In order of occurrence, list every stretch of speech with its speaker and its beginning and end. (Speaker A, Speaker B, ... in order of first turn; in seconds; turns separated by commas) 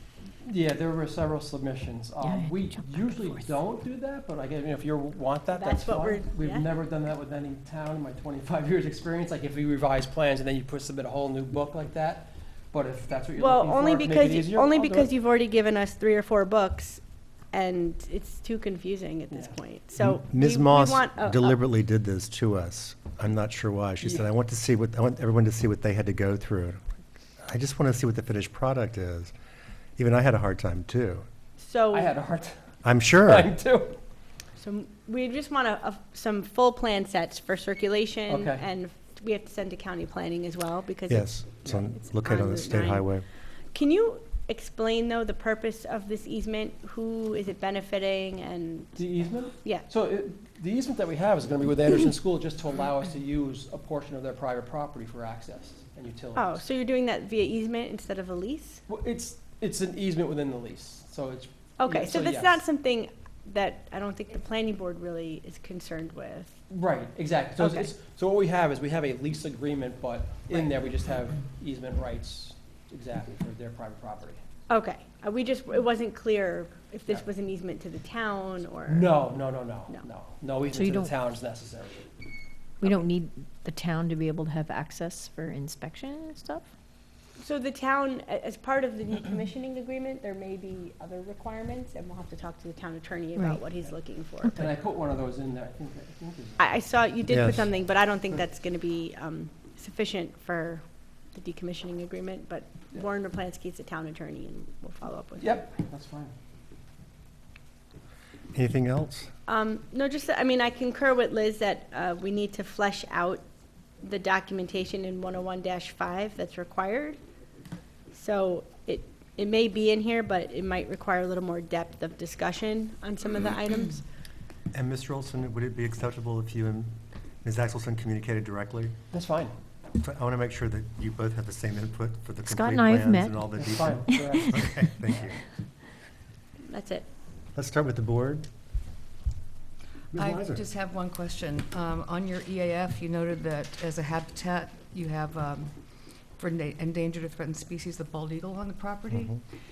Speaker A: 0.4-15.1, Speaker B: 2.2-3.0, Speaker C: 5.5-6.7, Speaker C: 13.4-21.6, Speaker A: 19.3-19.6, Speaker D: 20.0-26.8, Speaker D: 27.4-29.3, Speaker D: 30.0-31.2, Speaker C: 31.6-32.1, Speaker A: 31.9-32.5, Speaker D: 32.8-33.5, Speaker A: 33.1-34.0, Speaker C: 34.5-43.1, Speaker A: 38.3-38.6, Speaker D: 41.1-43.2, Speaker C: 43.7-49.0, Speaker A: 49.0-56.6, Speaker C: 56.3-58.8, Speaker A: 58.9-62.6, Speaker C: 61.8-66.5, Speaker A: 66.7-74.4, Speaker C: 67.6-67.9, Speaker C: 74.7-79.2, Speaker A: 78.9-82.1, Speaker B: 80.7-81.1, Speaker B: 82.8-86.7, Speaker C: 87.4-94.7, Speaker A: 94.5-96.7, Speaker C: 96.6-105.6, Speaker D: 97.3-97.7, Speaker A: 105.4-106.3, Speaker D: 108.5-109.3, Speaker C: 109.5-113.4, Speaker C: 114.0-117.2, Speaker C: 118.1-124.0, Speaker D: 124.7-126.9, Speaker D: 127.4-128.9, Speaker A: 129.1-129.5, Speaker D: 130.0-135.4, Speaker B: 132.4-133.4, Speaker A: 133.5-134.6, Speaker C: 136.7-137.1, Speaker D: 137.5-138.5, Speaker D: 140.1-140.6, Speaker E: 140.1-145.7, Speaker E: 146.4-149.3, Speaker D: 149.1-149.4